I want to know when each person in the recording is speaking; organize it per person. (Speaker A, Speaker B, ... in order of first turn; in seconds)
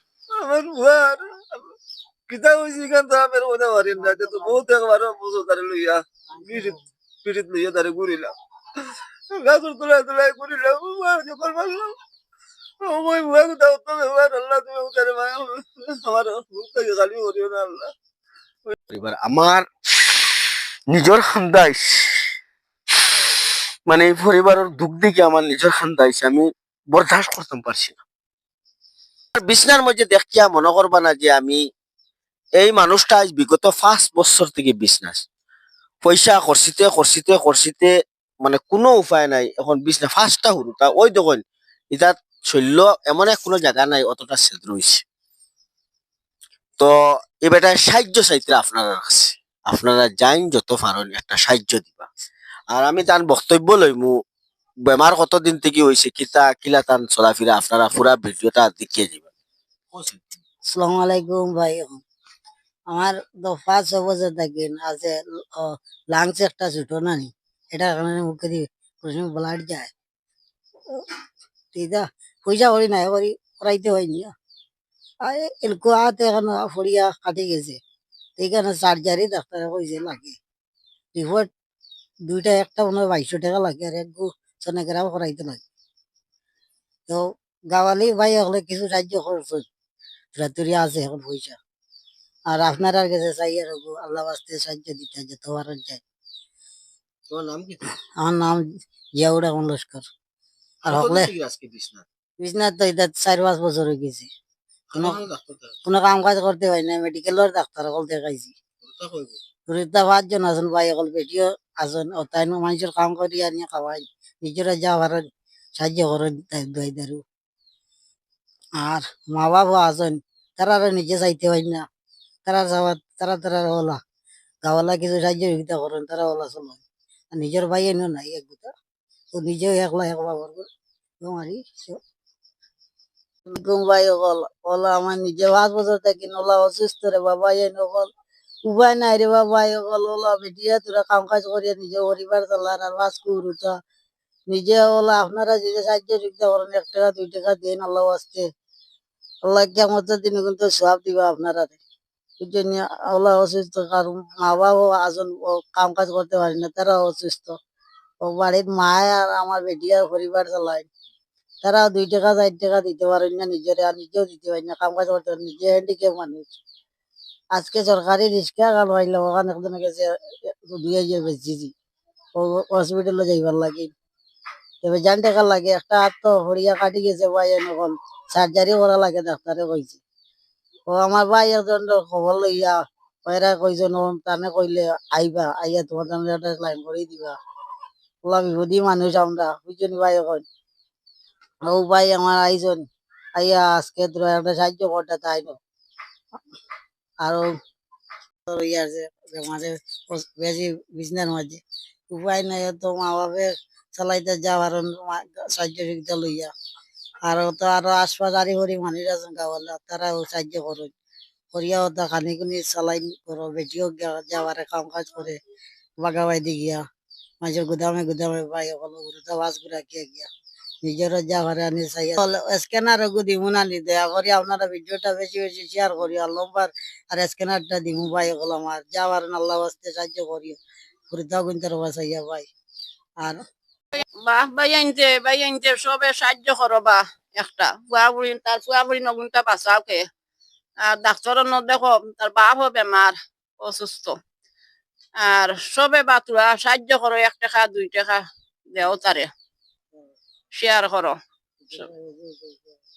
Speaker A: 0.3-1.7, 2.3-8.3, 9.3-11.9, 12.8-17.9
Speaker B: 3.9-4.7, 6.4-6.8, 60.7-62.0, 62.9-69.9, 71.7-74.3, 75.2-77.8, 78.4-80.4, 81.1-81.5, 82.3-85.6, 87.1-89.6, 90.3-91.6, 92.5-96.0, 98.2-98.6, 99.2-100.0, 100.8-101.3, 102.4-104.3, 104.9-105.2, 105.8-108.5, 109.7-115.2, 115.8-117.2, 118.8-121.8, 122.5-124.0, 124.6-128.7, 129.3-130.7, 131.2-132.0, 133.5-138.1, 138.6-143.7, 144.5-148.5, 149.4-151.8, 152.4-157.5, 158.2-160.9, 161.6-166.6, 167.5-171.7, 172.3-173.9, 174.8-180.0, 180.9-187.3, 188.2-190.4, 191.7-195.6, 197.2-197.5, 198.5-206.5, 207.2-210.9, 211.5-215.4, 216.0-216.8, 217.4-220.3, 220.8-230.6, 231.1-232.5, 251.6-252.7
Speaker C: 18.9-19.6, 20.9-22.0, 23.9-28.0, 29.4-31.6, 32.6-35.2, 36.0-37.9, 38.4-45.0, 47.4-52.1, 52.7-54.1, 54.9-59.2, 59.9-60.2, 97.3-97.8, 100.8-102.0, 104.9-105.6, 108.8-109.4
Speaker D: 233.9-240.0, 240.8-244.2, 245.2-248.2, 248.7-249.3, 250.5-251.2